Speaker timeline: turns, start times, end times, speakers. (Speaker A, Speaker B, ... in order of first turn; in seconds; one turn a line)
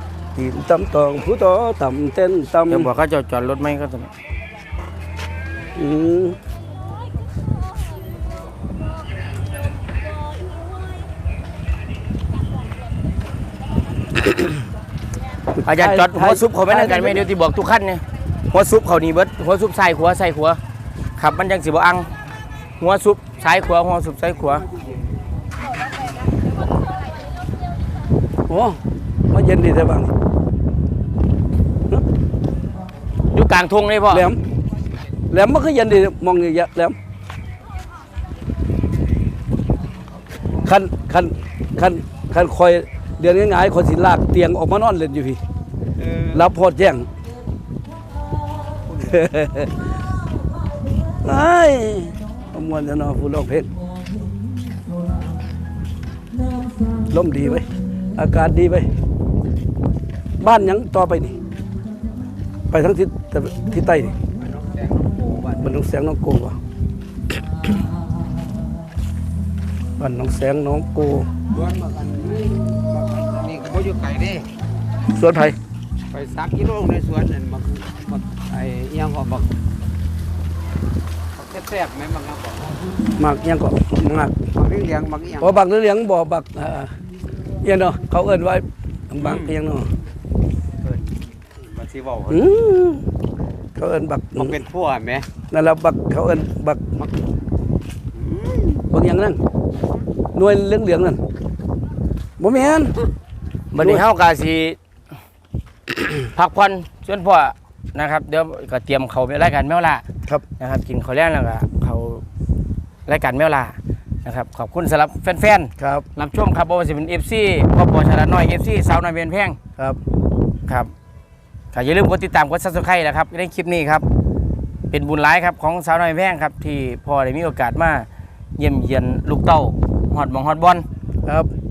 Speaker A: 0.3-2.9
Speaker B: 2.7-4.1
Speaker A: 5.8-6.4
Speaker A: 15.6-17.2
Speaker B: 15.6-20.6
Speaker B: 21.2-22.1
Speaker B: 22.8-24.6
Speaker A: 28.5-28.8
Speaker A: 29.3-30.1
Speaker B: 33.3-34.3
Speaker A: 34.1-34.4
Speaker A: 35.3-37.0
Speaker A: 40.6-45.4
Speaker A: 46.2-47.1
Speaker A: 48.9-49.7
Speaker A: 51.2-53.7
Speaker A: 57.1-58.9
Speaker A: 60.4-61.4
Speaker A: 62.7-64.2
Speaker C: 64.8-65.4
Speaker A: 65.5-66.6
Speaker A: 70.0-71.3
Speaker C: 71.6-74.5
Speaker A: 75.1-75.5
Speaker C: 76.1-79.5
Speaker C: 81.4-82.7
Speaker A: 83.1-84.3
Speaker C: 84.6-85.3
Speaker A: 85.3-86.9
Speaker A: 87.6-89.9
Speaker C: 91.8-92.2
Speaker A: 92.2-93.0
Speaker A: 93.8-94.7
Speaker C: 94.7-95.3
Speaker A: 95.5-96.9
Speaker A: 98.7-99.4
Speaker A: 100.3-101.2
Speaker A: 102.4-102.9
Speaker B: 103.7-104.8
Speaker B: 106.3-110.0
Speaker B: 110.6-112.2
Speaker B: 113.1-119.6
Speaker A: 115.8-116.0
Speaker B: 121.7-124.0
Speaker B: 124.9-130.8